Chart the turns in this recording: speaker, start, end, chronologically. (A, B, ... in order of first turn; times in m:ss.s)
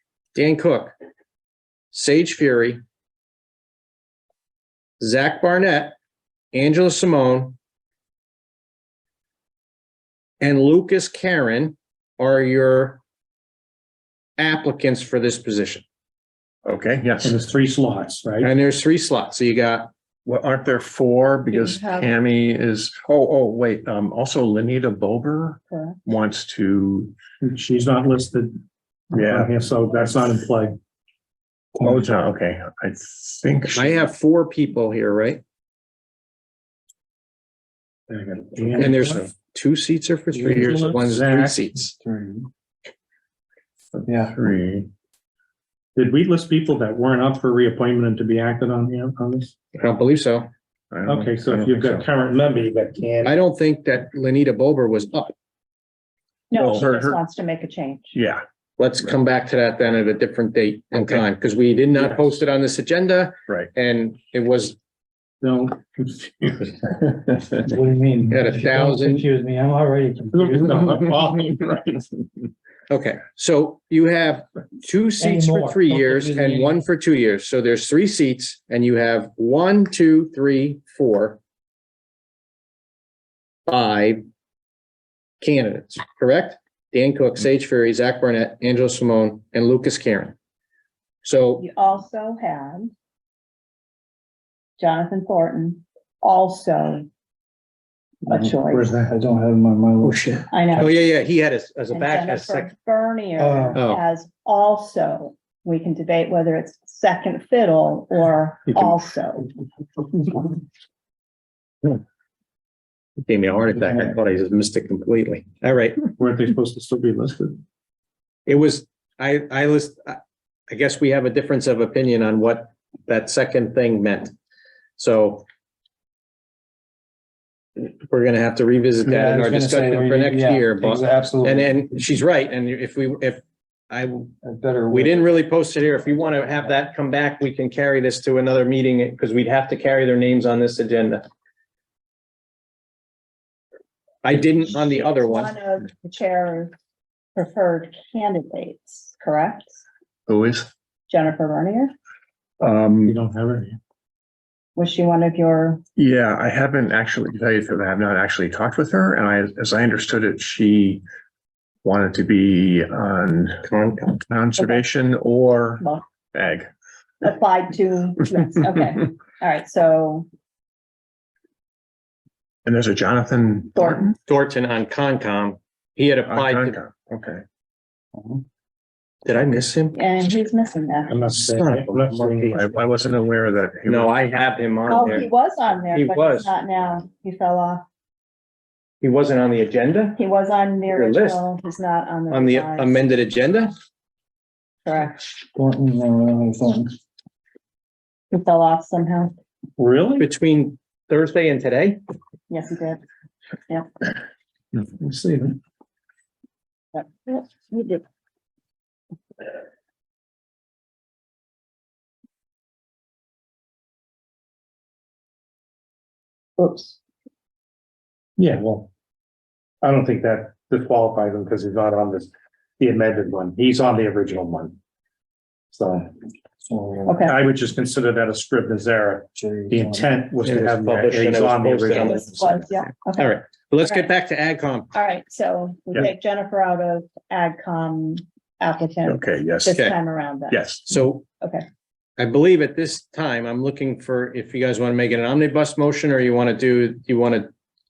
0:00.3-0:00.9 A
0:01.9-0:02.8 A
0:05.0-0:06.0 A
0:06.5-0:07.6 A
0:10.4-0:13.0 A
0:14.4-0:15.8 A
0:16.6-0:17.4 B
0:17.2-0:18.5 C
0:18.4-0:19.9 A
0:20.2-0:27.1 B
0:21.5-0:22.1 D
0:25.7-0:26.0 D
0:27.4-0:28.5 C
0:29.1-0:30.7 C
0:29.1-0:29.5 B
0:31.8-0:34.1 B
0:33.7-0:35.4 A
0:38.1-0:39.2 C
0:38.7-0:41.9 A
0:40.4-0:41.7 C
0:41.9-0:42.5 E
0:43.9-0:44.9 B
0:44.0-0:44.4 E
0:46.0-0:49.5 C
0:49.7-0:50.5 A
0:50.9-0:52.0 B
0:51.0-0:53.3 C
0:53.2-0:55.3 A
0:56.5-0:58.1 D
0:56.5-0:57.2 B
0:58.1-0:58.4 B
0:58.8-1:04.8 A
1:02.0-1:02.3 C
1:05.4-1:06.8 C
1:07.5-1:11.1 E
1:08.3-1:09.3 A
1:10.3-1:11.9 C
1:12.9-1:21.4 A
1:15.2-1:16.8 E
1:23.7-1:24.2 A
1:25.4-1:30.3 A
1:31.2-1:31.6 A
1:31.6-1:32.9 D
1:34.8-1:37.1 D
1:38.2-1:39.0 D
1:38.3-1:40.2 E
1:40.0-1:42.7 A
1:40.5-1:40.9 D
1:41.9-1:49.5 D
1:43.4-1:43.8 E
1:43.7-1:44.0 A
1:53.2-1:56.0 A
1:56.2-1:57.6 C
1:58.4-2:04.3 A
2:05.0-2:05.4 A
2:07.8-2:14.3 A
2:09.0-2:11.8 E
2:14.4-2:15.3 E
2:14.9-2:21.2 A
2:16.0-2:16.7 E
2:24.2-2:25.5 A
2:24.8-2:26.7 D
2:27.3-2:29.8 D
2:30.3-2:30.7 B
2:31.1-2:31.9 D
2:32.6-2:33.2 B
2:33.0-2:33.8 C
2:34.8-2:35.8 D
2:36.0-2:41.0 B
2:41.8-2:43.6 B
2:43.7-2:44.2 A
2:44.2-2:46.7 B
2:47.2-2:50.3 D
2:52.6-2:54.1 B
2:53.7-2:54.1 D
2:54.2-2:56.8 A
2:56.3-2:57.4 B
2:59.2-3:00.0 A
2:59.9-3:01.2 D
3:01.1-3:02.6 C
3:01.4-3:02.8 A
3:02.5-3:04.1 B
3:03.8-3:05.3 A
3:04.9-3:07.8 D
3:05.9-3:06.5 A
3:09.0-3:10.2 A
3:10.2-3:13.0 D
3:10.9-3:11.4 A
3:12.3-3:13.7 A
3:14.8-3:15.4 D
3:15.5-3:17.0 E
3:18.3-3:19.3 D
3:19.8-3:20.3 C
3:20.2-3:22.0 A
3:22.5-3:23.0 D
3:26.9-3:28.0 D
3:36.6-3:37.0 D
3:38.4-3:38.9 C
3:39.8-3:44.8 C
3:45.7-3:46.1 C
3:46.6-3:47.3 E
3:47.1-3:47.4 D
3:47.2-3:52.5 C
3:49.3-3:50.1 E
3:50.4-3:52.6 A
3:51.9-3:54.0 D
3:53.2-3:54.9 A
3:54.9-4:00.8 D
3:59.0-3:59.9 B
4:00.5-4:00.9 B
4:00.9-4:01.2 A
4:02.2-4:07.5 A